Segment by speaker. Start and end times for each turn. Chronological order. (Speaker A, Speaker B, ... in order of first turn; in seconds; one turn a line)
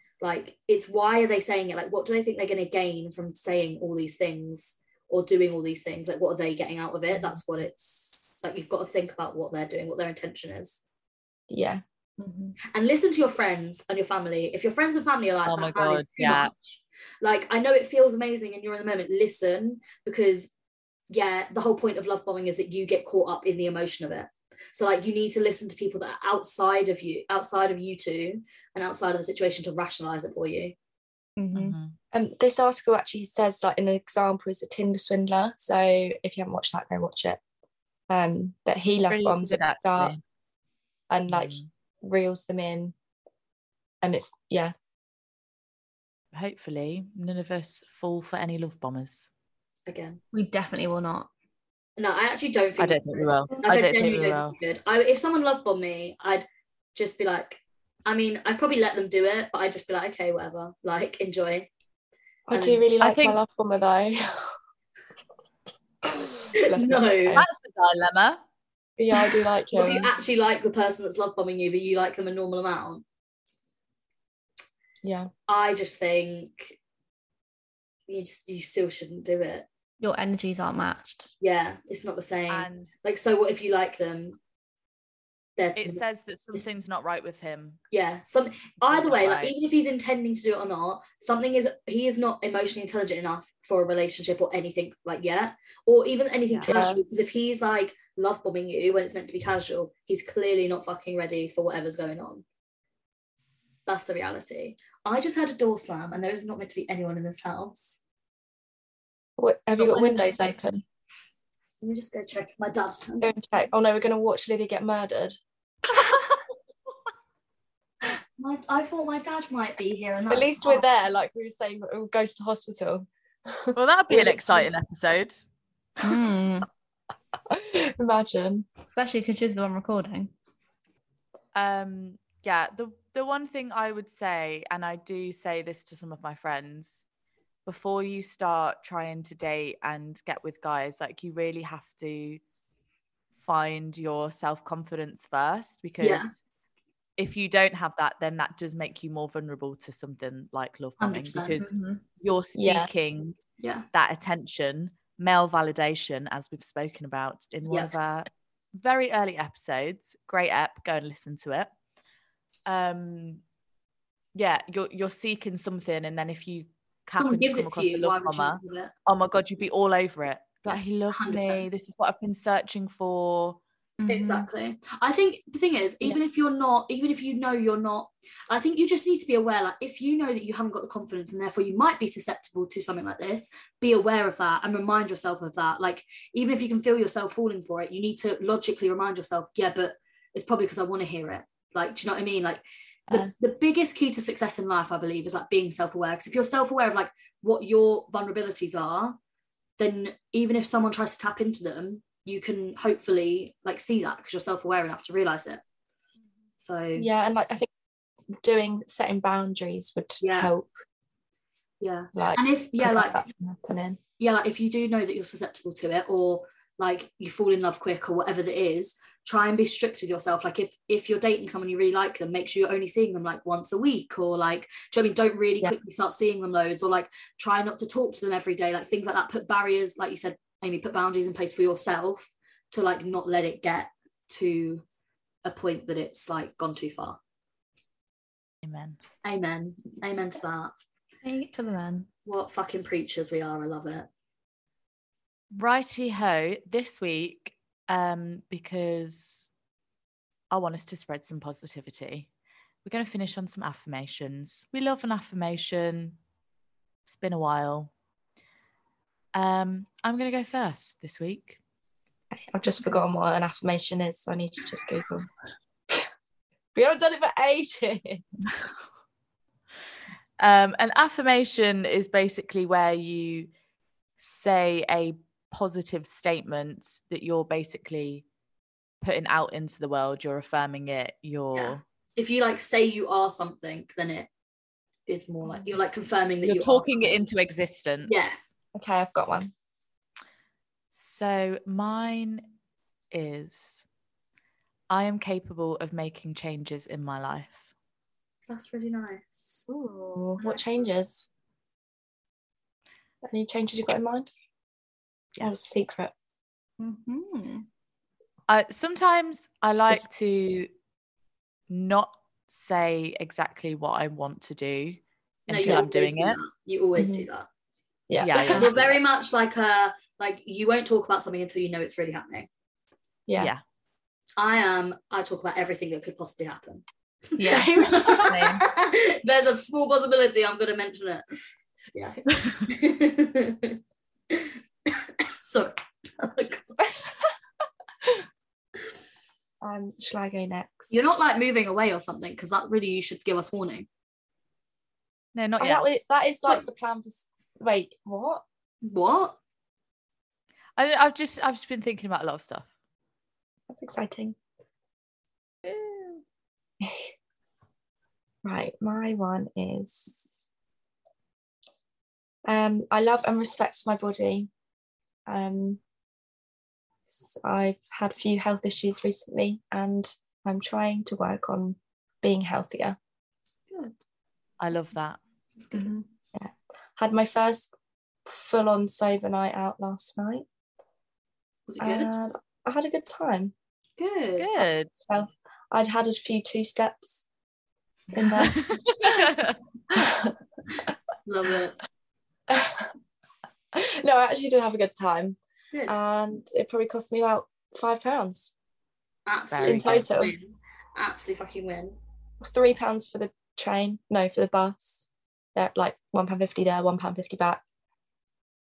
Speaker A: 0.2-10.8
Speaker B: 11.5-11.8
Speaker C: 12.2-12.6
Speaker A: 12.7-16.5
Speaker D: 15.4-16.7
Speaker A: 17.2-20.5
Speaker A: 21.1-30.7
Speaker C: 31.4-31.7
Speaker D: 31.5-31.9
Speaker B: 32.1-37.4
Speaker B: 38.1-40.1
Speaker D: 39.1-40.2
Speaker B: 41.1-42.9
Speaker D: 41.3-41.7
Speaker B: 44.0-44.7
Speaker D: 46.3-49.3
Speaker A: 49.9-50.2
Speaker C: 50.3-51.3
Speaker A: 52.0-61.7
Speaker D: 52.8-54.5
Speaker B: 62.5-64.5
Speaker A: 62.5-62.8
Speaker D: 63.0-63.4
Speaker B: 66.0-67.5
Speaker A: 66.6-67.4
Speaker D: 67.3-68.4
Speaker B: 69.0-70.1
Speaker A: 69.7-73.0
Speaker B: 75.0-75.3
Speaker A: 75.5-76.8
Speaker A: 78.1-79.7
Speaker C: 80.0-81.3
Speaker A: 81.4-84.4
Speaker D: 82.5-82.9
Speaker A: 85.6-86.0
Speaker D: 85.8-87.8
Speaker A: 87.9-102.4
Speaker D: 88.9-89.5
Speaker D: 96.5-96.8
Speaker B: 96.7-97.0
Speaker A: 103.9-108.0
Speaker B: 109.4-110.8
Speaker C: 109.8-110.4
Speaker A: 111.8-113.3
Speaker B: 113.2-115.4
Speaker A: 118.4-120.8
Speaker B: 120.3-124.7
Speaker D: 123.7-125.4
Speaker C: 126.0-126.7
Speaker B: 127.5-128.7
Speaker C: 128.8-130.3
Speaker D: 131.5-137.0
Speaker D: 137.7-142.4
Speaker D: 143.4-146.4
Speaker A: 146.0-146.3
Speaker D: 147.2-153.4
Speaker A: 151.0-151.6
Speaker C: 151.6-152.0
Speaker B: 152.6-152.9
Speaker A: 153.6-153.8
Speaker D: 153.9-161.7
Speaker D: 162.7-163.4
Speaker D: 164.3-173.6
Speaker A: 167.1-168.9
Speaker A: 170.7-171.6
Speaker C: 174.0-174.5
Speaker A: 174.1-199.2
Speaker A: 199.8-205.6
Speaker A: 206.6-207.1
Speaker B: 206.9-207.7
Speaker B: 208.4-210.7
Speaker A: 210.2-210.5
Speaker A: 211.8-213.2
Speaker B: 212.1-214.0
Speaker A: 214.2-234.8
Speaker A: 235.4-237.2
Speaker D: 238.6-239.0
Speaker A: 239.2-240.7
Speaker C: 241.2-242.1
Speaker A: 242.2-244.1
Speaker D: 245.5-249.5
Speaker D: 250.5-252.3
Speaker D: 252.8-256.2
Speaker D: 257.1-257.9
Speaker D: 259.3-261.6
Speaker B: 262.3-265.3
Speaker D: 262.9-263.1
Speaker B: 266.7-268.2
Speaker D: 270.4-273.5
Speaker D: 274.2-278.2
Speaker D: 279.0-281.8
Speaker A: 281.5-284.3
Speaker A: 285.1-287.2
Speaker D: 286.4-288.5
Speaker A: 288.1-288.4
Speaker B: 288.7-289.5
Speaker D: 290.9-292.4
Speaker D: 293.1-293.9
Speaker D: 294.9-297.7
Speaker A: 298.5-299.7
Speaker B: 299.7-301.3
Speaker B: 303.2-304.3
Speaker B: 305.4-306.1
Speaker C: 306.8-307.6
Speaker D: 308.5-310.7
Speaker D: 311.7-316.4
Speaker A: 315.5-317.5
Speaker B: 317.0-317.3
Speaker B: 318.1-318.7
Speaker D: 318.2-318.9
Speaker A: 318.5-322.5
Speaker B: 323.3-323.5
Speaker A: 324.4-331.2
Speaker C: 327.4-328.7
Speaker B: 327.5-328.3
Speaker A: 331.9-333.8
Speaker A: 334.3-336.8
Speaker B: 339.6-341.1
Speaker A: 340.9-343.9
Speaker D: 345.3-345.8
Speaker B: 345.6-348.4
Speaker A: 348.8-349.4
Speaker D: 350.8-352.7
Speaker B: 353.7-354.4
Speaker B: 356.8-357.1
Speaker B: 358.4-360.5
Speaker B: 362.5-364.5
Speaker B: 365.3-365.8
Speaker B: 367.1-373.0
Speaker D: 374.6-375.2
Speaker A: 375.6-376.0
Speaker C: 375.7-376.0
Speaker B: 376.3-377.7
Speaker B: 378.2-380.4
Speaker A: 381.7-382.1
Speaker B: 381.8-383.5
Speaker A: 384.0-384.5
Speaker D: 384.4-385.0
Speaker B: 385.1-387.2
Speaker B: 388.1-388.6
Speaker D: 388.4-389.6
Speaker B: 389.9-390.3
Speaker A: 391.2-391.8
Speaker B: 392.5-392.9
Speaker B: 393.7-398.5
Speaker A: 395.7-396.0
Speaker A: 399.2-402.0
Speaker D: 399.5-400.1
Speaker B: 399.6-400.3
Speaker B: 402.4-407.6